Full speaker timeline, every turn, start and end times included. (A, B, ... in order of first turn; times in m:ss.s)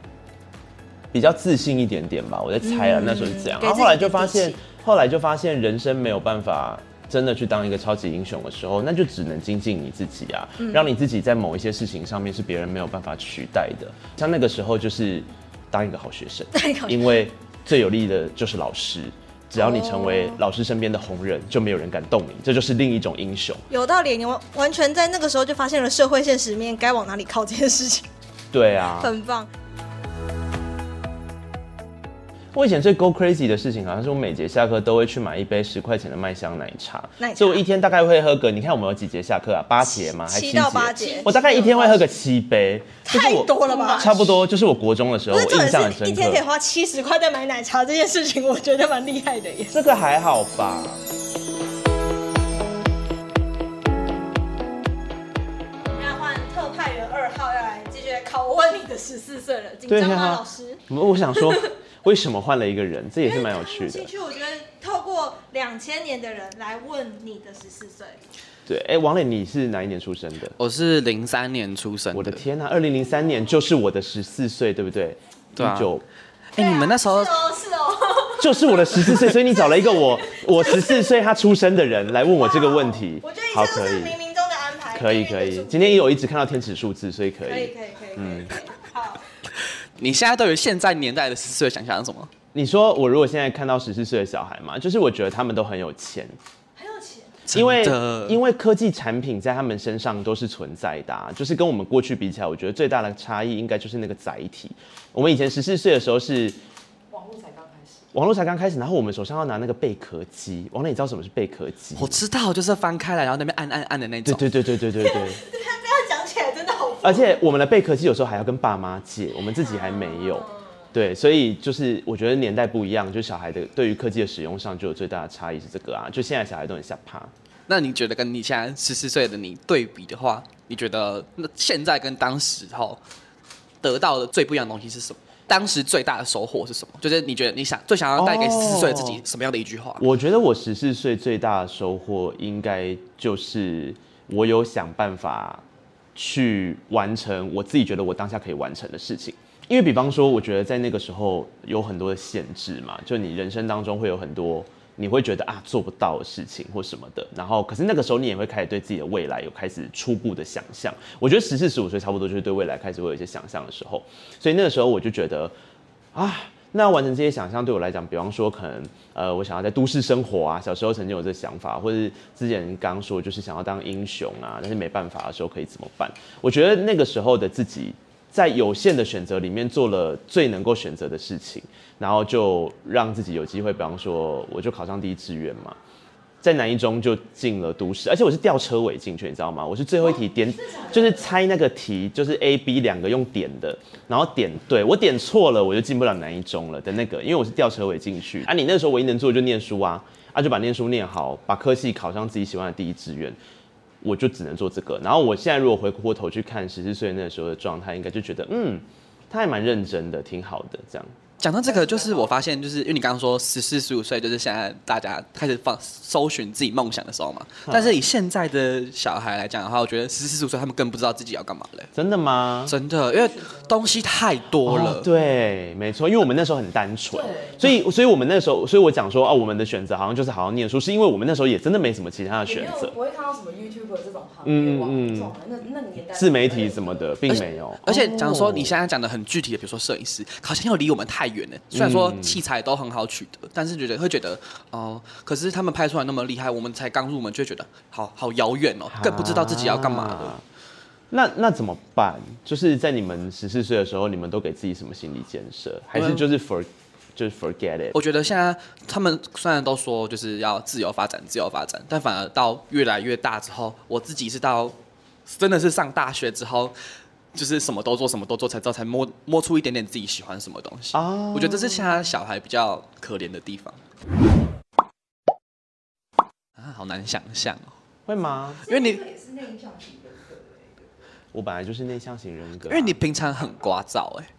0:01.1-0:23.6 A
0:02.6-0:04.6 B
0:10.6-0:10.9 B
0:16.5-0:17.2 B
0:19.5-0:20.4 B
0:23.7-0:28.1 B
0:28.5-0:29.1 A
0:29.0-0:29.5 B
0:32.5-0:46.4 A
0:37.2-0:37.6 B
0:39.9-0:42.0 B
0:43.1-0:44.2 B
0:45.3-0:49.8 B
0:49.7-0:51.0 A
0:55.9-1:00.8 B
0:59.9-1:04.1 A
1:01.4-1:01.7 B
1:03.2-1:08.2 B
1:08.7-1:10.6 A
1:10.6-1:12.4 C
1:12.1-1:16.0 A
1:15.6-1:15.9 C
1:16.5-1:17.5 C
1:16.6-1:19.0 B
1:18.4-1:24.2 A
1:19.5-1:21.1 B
1:22.2-1:26.1 B
1:24.9-1:28.6 A
1:27.4-1:29.2 B
1:30.0-1:32.3 C
1:32.5-1:36.4 A
1:36.8-1:37.4 B
1:37.5-1:38.4 C
1:37.5-1:46.6 A
1:47.1-1:48.1 D
1:48.1-1:52.2 A
1:52.0-1:54.5 C
1:54.2-1:55.4 A
1:55.0-1:57.3 B
1:57.0-2:07.3 A
1:59.6-2:00.7 B
2:07.7-2:13.0 C
2:13.8-2:20.1 C
2:18.2-2:19.2 A
2:20.0-2:25.6 A
2:26.1-2:45.5 A
2:46.1-3:05.8 A
3:06.4-3:23.4 A
3:10.0-3:11.3 D
3:24.0-3:31.1 A
3:31.4-3:41.9 C
3:37.7-3:38.0 A
3:42.0-3:42.7 A
3:42.7-3:45.1 C
3:43.1-3:44.0 D
3:44.6-3:53.0 A
3:47.1-3:47.7 D
3:52.4-3:57.4 D
3:54.4-3:55.4 A
3:56.1-3:58.8 A
3:57.3-4:10.4 C
4:01.7-4:02.4 A
4:08.9-4:10.4 A
4:11.1-4:18.0 A
4:16.0-4:16.2 C
4:17.9-4:26.8 C
4:27.3-4:33.8 C
4:30.9-4:31.9 A
4:36.6-4:37.7 C
4:38.1-4:38.6 A
4:38.6-4:40.9 D
4:38.7-4:39.0 C
4:41.3-4:43.0 A
4:42.7-4:44.3 C